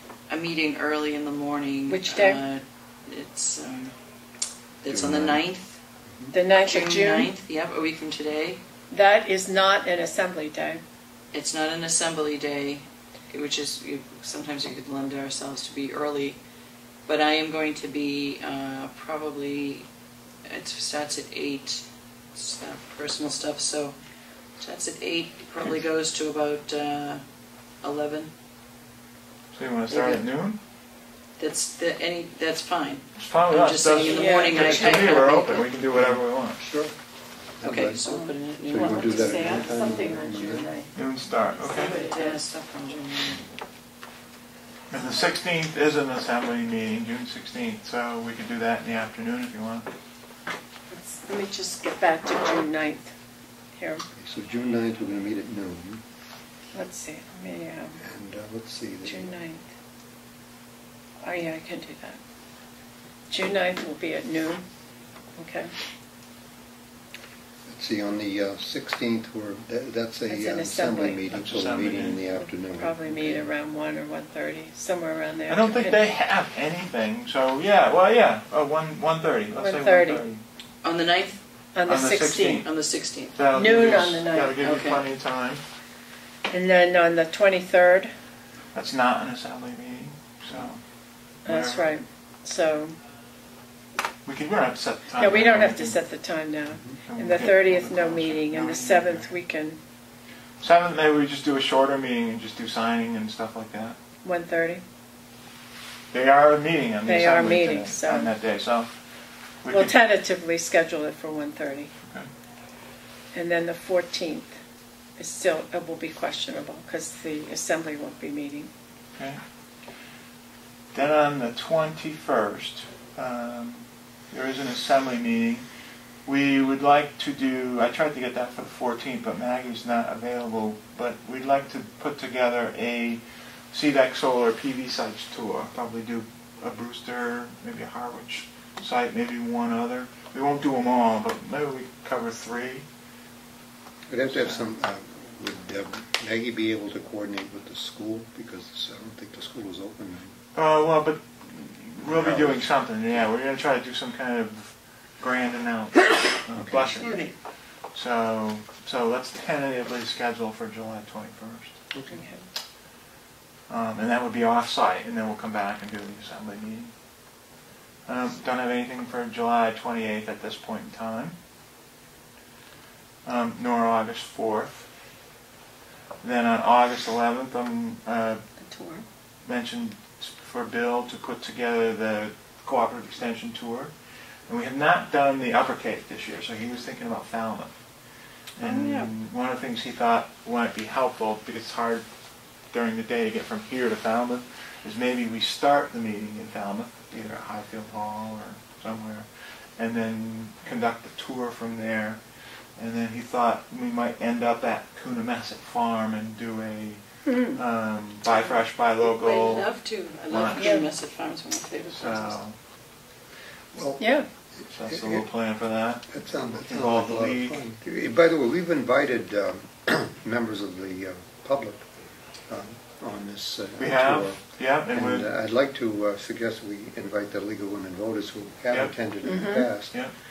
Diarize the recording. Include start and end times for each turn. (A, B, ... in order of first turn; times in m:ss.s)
0:00.3-0:03.9 A
0:01.9-0:02.4 B
0:04.8-0:05.8 A
0:04.9-0:05.4 C
0:06.3-0:07.3 B
0:06.5-0:08.6 A
0:08.9-0:10.8 B
0:11.3-0:16.4 A
0:17.0-0:19.9 A
0:20.5-0:24.0 A
0:24.6-0:27.2 A
0:27.8-0:28.3 A
0:29.5-0:30.6 D
0:29.9-0:30.2 A
0:31.4-0:35.7 A
0:33.2-0:36.6 D
0:34.0-0:35.4 B
0:36.0-0:36.9 C
0:37.6-0:38.0 C
0:37.6-0:39.7 A
0:38.1-0:41.0 B
0:38.7-0:40.7 C
0:41.0-0:42.0 D
0:41.6-0:42.4 B
0:41.7-0:43.4 A
0:44.9-0:49.9 D
0:50.9-0:53.1 B
0:53.8-0:54.1 B
0:54.2-0:56.0 C
0:56.7-0:58.0 B
0:58.0-0:59.3 C
0:59.0-0:59.7 B
1:01.2-1:02.2 B
1:03.3-1:04.6 B
1:05.4-1:05.7 B
1:07.7-1:13.4 C
1:10.3-1:11.2 B
1:11.3-1:12.2 D
1:12.6-1:16.0 B
1:15.5-1:20.4 D
1:19.5-1:20.2 B
1:20.8-1:21.4 A
1:21.7-1:22.6 B
1:21.9-1:22.7 D
1:22.5-1:23.4 A
1:23.3-1:25.6 D
1:23.5-1:24.8 B
1:24.6-1:25.0 A
1:26.5-1:28.1 B
1:28.7-1:30.8 D
1:31.4-1:31.9 D
1:31.4-1:33.0 B
1:34.2-1:36.0 D
1:35.2-1:39.8 B
1:37.0-1:39.3 D
1:40.6-1:44.0 D
1:44.2-1:44.8 B
1:46.1-1:48.9 D
1:47.0-1:48.3 B
1:49.6-1:49.9 D
1:49.7-1:51.9 B
1:53.3-1:54.6 B
1:55.2-1:58.7 B
2:00.9-2:05.6 D
2:06.3-2:22.8 D
2:24.1-2:30.3 C
2:24.3-2:24.6 D
2:30.6-2:37.3 D
2:32.0-2:32.7 C
2:36.6-2:37.2 C
2:37.9-2:41.8 D
2:41.9-2:42.2 C
2:42.1-2:42.4 B
2:43.7-2:46.9 D
2:48.1-2:51.4 D
2:53.2-2:54.9 D
2:56.2-2:58.4 D
2:58.6-2:59.0 B
2:59.4-3:03.9 D
3:04.5-3:07.7 D
3:08.6-3:12.0 D
3:08.6-3:09.1 B
3:12.7-3:19.3 D
3:19.8-3:22.2 D
3:22.8-3:29.7 D
3:27.3-3:27.6 B
3:29.0-3:32.4 A
3:30.3-3:30.8 D
3:30.6-3:30.9 B
3:31.9-3:32.6 D
3:33.7-3:34.2 C
3:34.0-3:34.3 B
3:34.7-3:37.6 D
3:34.8-3:35.2 C
3:36.1-3:41.8 C
3:42.5-3:50.0 C
3:43.8-3:45.3 D
3:48.7-3:49.0 D
3:49.2-3:49.7 B